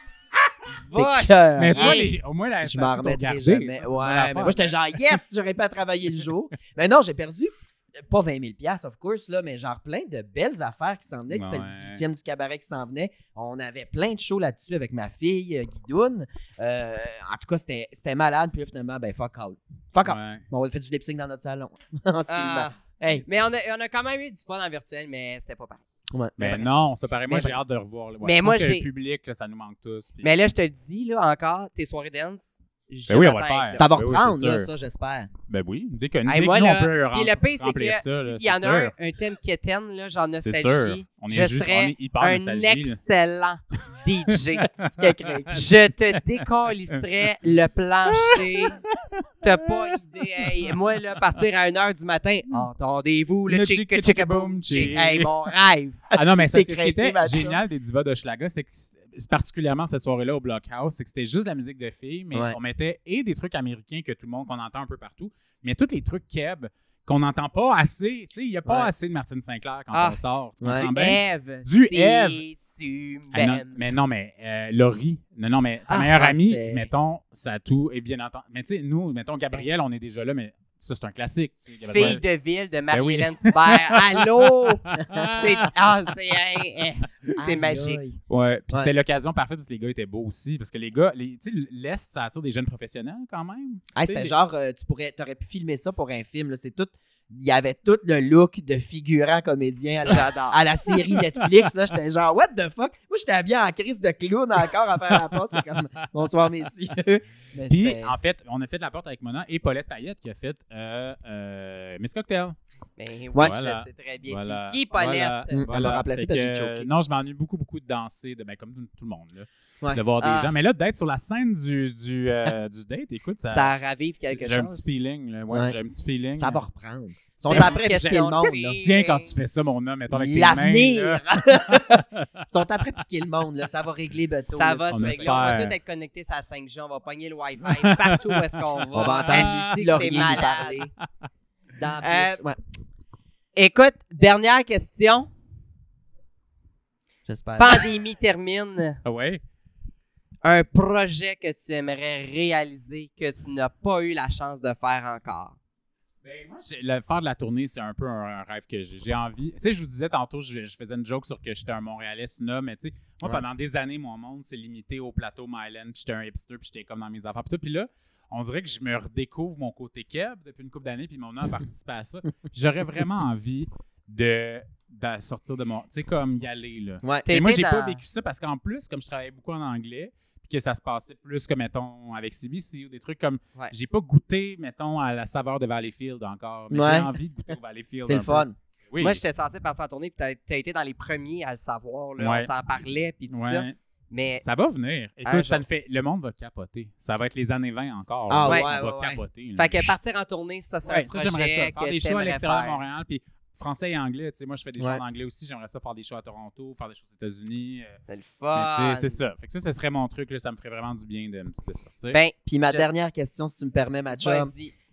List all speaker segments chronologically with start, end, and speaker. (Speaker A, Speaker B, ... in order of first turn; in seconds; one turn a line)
Speaker A: 0.7-2.1
Speaker B: 0.9-23.2
Speaker C: 1.6-4.7
Speaker C: 11.3-12.0
Speaker C: 20.0-20.4
Speaker A: 22.3-25.8
Speaker B: 26.1-26.7
Speaker C: 26.4-30.4
Speaker B: 27.3-27.5
Speaker A: 28.2-28.9
Speaker A: 30.2-33.8
Speaker C: 33.1-34.7
Speaker B: 33.7-35.3
Speaker C: 35.5-38.9
Speaker A: 36.2-44.7
Speaker C: 40.4-43.0
Speaker C: 44.5-45.7
Speaker B: 45.0-45.6
Speaker A: 45.5-48.8
Speaker C: 48.1-49.9
Speaker A: 49.4-56.0
Speaker C: 53.5-55.5
Speaker C: 56.1-72.4
Speaker B: 56.3-57.6
Speaker A: 69.9-73.8
Speaker B: 70.6-70.9
Speaker C: 73.3-82.2
Speaker B: 75.9-76.9
Speaker A: 81.9-88.0
Speaker C: 82.9-85.7
Speaker B: 85.0-85.4
Speaker B: 87.4-88.2
Speaker C: 88.3-94.3
Speaker B: 93.9-108.1
Speaker A: 100.0-100.6
Speaker C: 101.0-101.5
Speaker C: 107.7-112.5
Speaker A: 113.0-115.7
Speaker C: 113.3-123.7
Speaker B: 115.5-116.9
Speaker A: 120.2-120.5
Speaker A: 123.5-124.8
Speaker C: 124.3-126.6
Speaker B: 125.5-125.8
Speaker B: 126.4-128.8
Speaker A: 127.4-129.3
Speaker C: 127.5-128.2
Speaker C: 128.8-132.3
Speaker B: 130.1-135.5
Speaker A: 134.5-140.8
Speaker C: 134.9-135.7
Speaker C: 137.7-138.4
Speaker B: 138.9-140.9
Speaker C: 139.0-140.0
Speaker B: 141.8-142.6
Speaker A: 142.0-142.4
Speaker A: 143.6-145.3
Speaker B: 147.3-147.9
Speaker A: 147.6-149.0
Speaker C: 149.0-149.4
Speaker A: 150.4-155.6
Speaker C: 156.2-189.2
Speaker A: 177.2-178.0
Speaker B: 186.7-187.1
Speaker B: 188.1-188.5
Speaker A: 189.0-194.4
Speaker C: 192.2-192.5
Speaker C: 193.3-193.7
Speaker C: 194.4-199.9
Speaker A: 195.2-195.6
Speaker B: 198.3-199.2
Speaker A: 198.5-198.7
Speaker A: 199.5-202.8
Speaker C: 200.9-208.0
Speaker A: 208.1-209.2
Speaker C: 208.5-212.2
Speaker A: 212.1-212.8
Speaker B: 212.4-214.5
Speaker A: 214.2-214.7